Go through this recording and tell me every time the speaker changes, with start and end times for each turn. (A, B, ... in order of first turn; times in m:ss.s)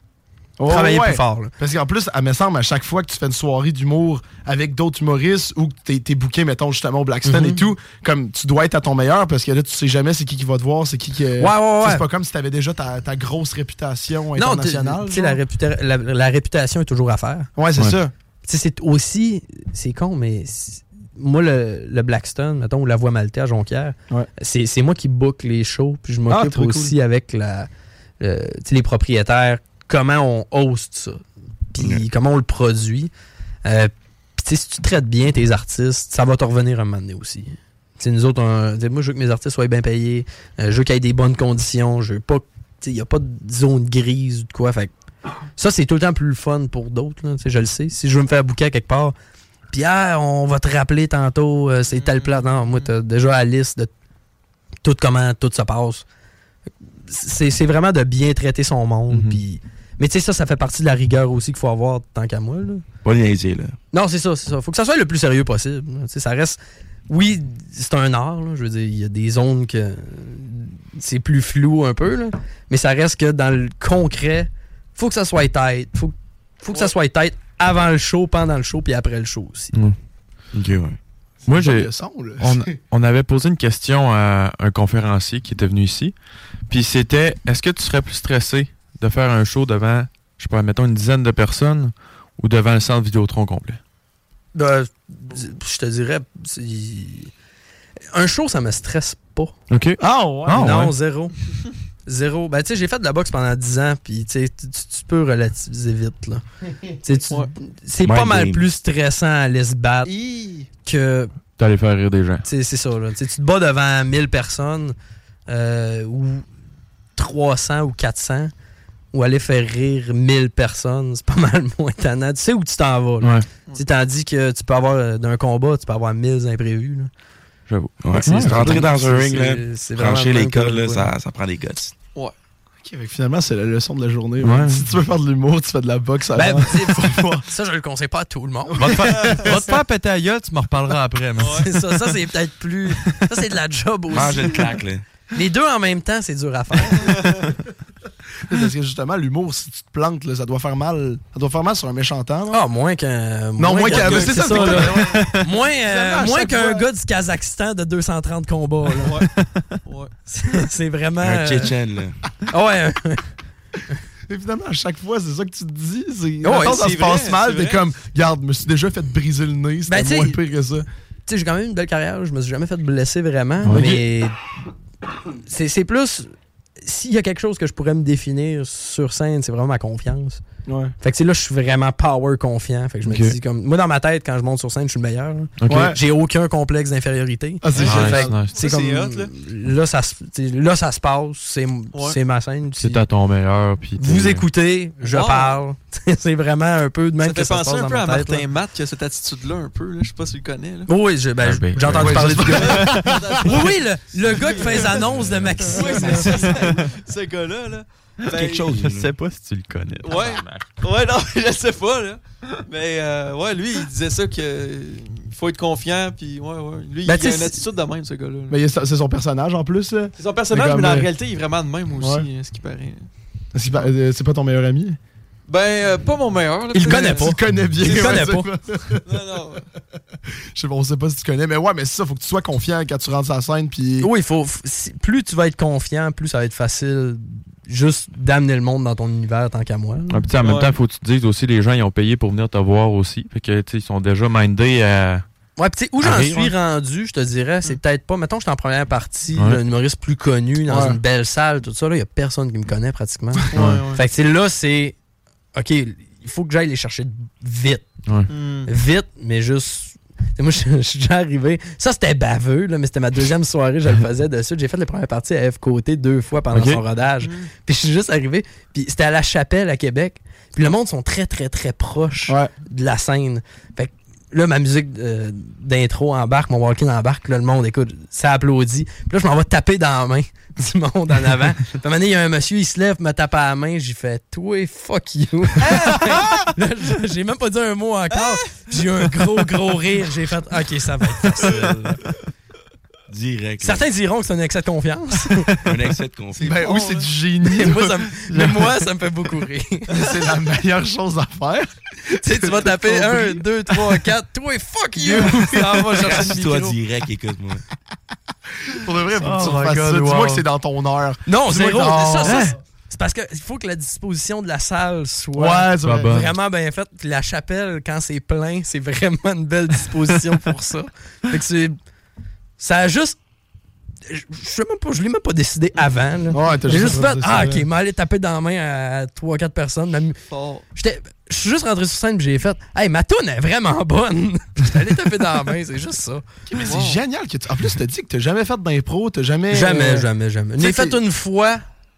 0:00.6-0:15.4 A
0:00.7-0:01.5 B
0:07.2-0:07.7 B
0:11.4-0:12.0 B
0:14.4-0:17.5 B
0:17.6-0:18.1 A
0:18.4-0:27.7 B
0:26.3-0:26.9 A
0:28.2-0:31.2 B
0:31.7-0:33.1 B
0:31.8-0:32.0 C
0:33.6-0:44.9 B
0:45.6-0:49.1 B
0:49.7-0:53.9 B
0:51.9-0:52.9 D
0:54.8-0:56.0 B
0:57.1-1:02.8 B
0:59.1-0:59.4 E
1:03.0-1:03.8 C
1:03.9-1:06.6 B
1:07.1-1:19.8 B
1:20.5-1:21.0 C
1:21.5-1:26.1 E
1:21.5-1:22.7 A
1:26.7-1:33.8 E
1:34.6-1:37.3 B
1:38.1-1:39.5 B
1:39.7-1:40.9 E
1:40.0-1:40.6 A
1:40.5-1:41.3 B
1:42.1-1:50.1 B
1:48.0-1:48.6 C
1:50.3-1:50.6 A
1:50.8-1:51.3 B
1:51.6-1:52.4 E
1:52.4-1:54.9 B
1:55.5-1:56.4 B
1:57.2-1:58.5 B
1:59.1-2:07.1 B
2:03.2-2:03.5 E
2:07.7-2:08.8 E
2:08.0-2:11.9 C
2:08.1-2:11.1 B
2:12.8-2:17.4 A
2:14.4-2:14.9 E
2:16.4-2:19.0 B
2:18.8-2:19.4 A
2:18.8-2:21.8 E
2:19.0-2:19.6 D
2:21.4-2:21.7 D
2:21.5-2:24.8 B
2:24.1-2:25.0 C
2:25.3-2:27.3 B
2:28.4-2:32.6 A
2:32.5-2:39.2 B
2:33.6-2:36.9 A
2:33.8-2:35.3 D
2:39.0-2:39.3 D
2:39.4-2:39.8 E
2:39.9-2:40.1 D
2:40.3-2:41.7 B
2:41.2-2:42.1 C
2:42.5-2:43.3 B
2:44.3-2:50.8 A
2:46.4-2:46.8 B
2:46.5-2:47.9 D
2:49.9-2:50.4 B
2:51.3-2:54.3 B
2:53.6-2:54.0 E
2:53.7-2:54.0 A
2:55.5-2:56.3 B
2:56.8-3:00.4 B
3:00.6-3:00.9 A
3:01.0-3:13.0 B
3:03.1-3:03.4 E
3:05.6-3:05.9 E
3:05.7-3:06.0 A
3:07.6-3:08.3 A
3:07.8-3:09.3 D
3:07.8-3:08.6 E
3:12.8-3:14.4 E
3:14.0-3:18.4 B
3:15.0-3:15.6 D
3:17.2-3:20.9 D
3:20.9-3:26.7 B
3:21.4-3:23.2 E
3:22.0-3:23.4 A
3:22.6-3:25.0 D
3:25.1-3:26.2 E
3:25.6-3:28.7 D
3:28.3-3:29.1 C
3:28.8-3:30.6 E
3:30.0-3:38.6 D
3:37.0-3:37.6 B
3:38.5-3:41.1 A
3:40.2-3:43.1 D
3:42.0-3:42.2 A
3:43.5-3:45.0 A
3:45.5-3:48.3 D
3:46.7-3:49.2 A
3:46.8-3:48.5 B
3:49.0-3:49.6 D
3:50.5-3:54.1 A
3:54.0-4:00.3 B
4:00.1-4:05.2 E
4:00.4-4:00.8 D
4:05.6-4:15.0 B
4:06.0-4:06.5 E
4:10.7-4:11.0 A
4:13.5-4:14.0 D
4:13.5-4:13.8 E
4:15.6-4:17.9 B
4:18.3-4:18.7 D
4:18.7-4:52.0 B
4:26.5-4:26.8 E
4:27.2-4:27.5 D
4:53.1-4:53.9 C
4:53.6-4:55.6 B
4:55.6-4:56.6 C
4:56.4-4:57.1 D
4:56.4-4:57.9 A
4:57.4-5:00.0 B
4:58.3-4:58.8 E
4:59.9-5:03.7 A
5:02.2-5:06.8 B
5:05.8-5:07.6 C
5:08.7-5:12.5 A
5:09.2-5:10.4 E
5:11.3-5:21.8 B
5:12.2-5:12.6 E
5:15.4-5:16.3 A
5:15.8-5:16.3 E
5:22.6-5:23.2 B
5:24.1-5:30.2 B
5:26.3-5:27.6 A
5:30.3-5:30.6 D
5:30.8-5:36.2 B
5:36.5-5:41.0 A
5:36.6-5:37.0 D
5:39.5-5:41.6 B